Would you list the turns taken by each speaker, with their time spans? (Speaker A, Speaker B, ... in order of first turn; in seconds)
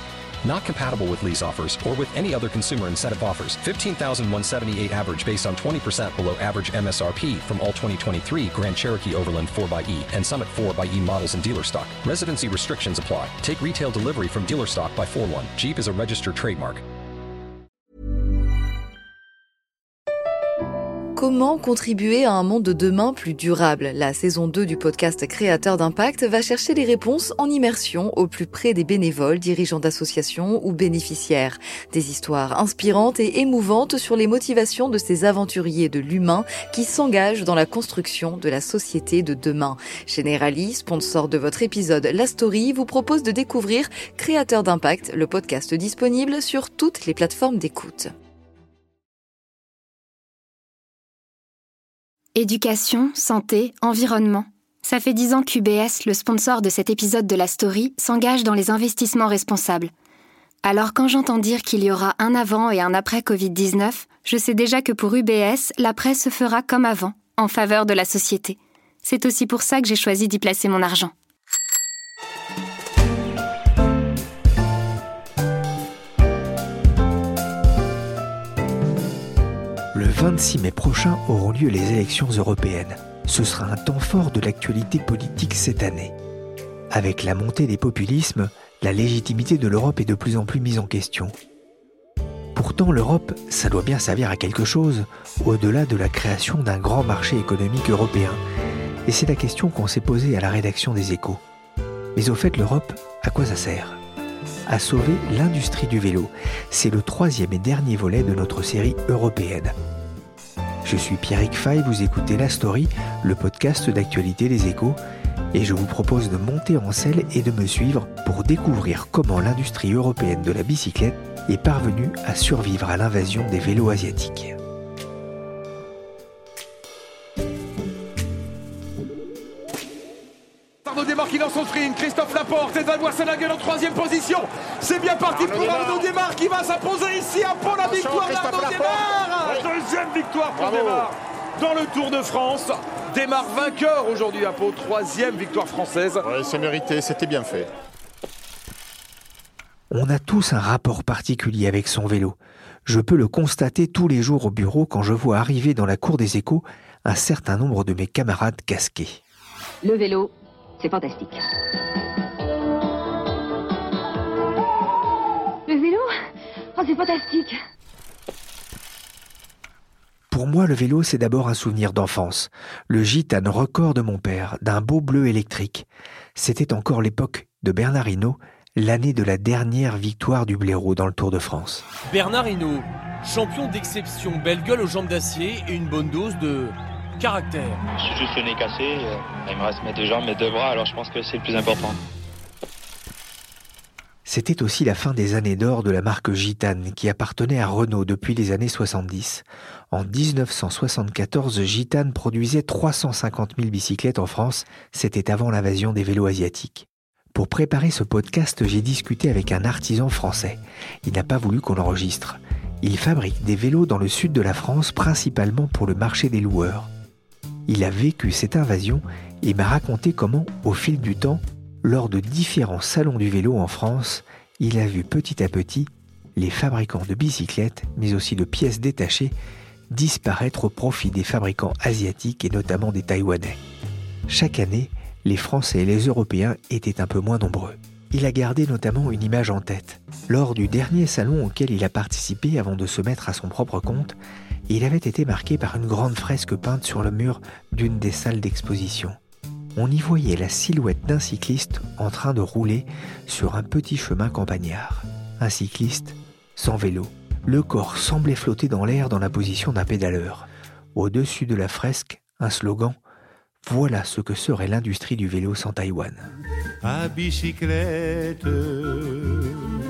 Speaker A: 0.4-16.8
Speaker B: 21.2-48.1
Speaker C: 52.4-59.9, 60.6-71.1
Speaker D: 79.9-86.2, 86.9-91.3, 92.5-98.4, 99.1-101.4, 102.2-104.0, 104.7-109.8, 110.8-115.0, 115.5-124.6, 149.9-159.2, 170.3-181.8, 194.3-216.9, 217.7-229.3, 229.9-233.6, 234.3-244.2, 244.7-249.2, 249.8-263.0, 263.6-266.3
Speaker E: 130.8-146.2
Speaker F: 135.4-136.0, 137.8-139.0, 140.6-141.1, 146.2-147.7
Speaker G: 159.8-161.4, 165.7-166.1, 166.8-167.6
Speaker H: 182.1-187.8
Speaker I: 188.0-192.0
Speaker J: 266.9-269.5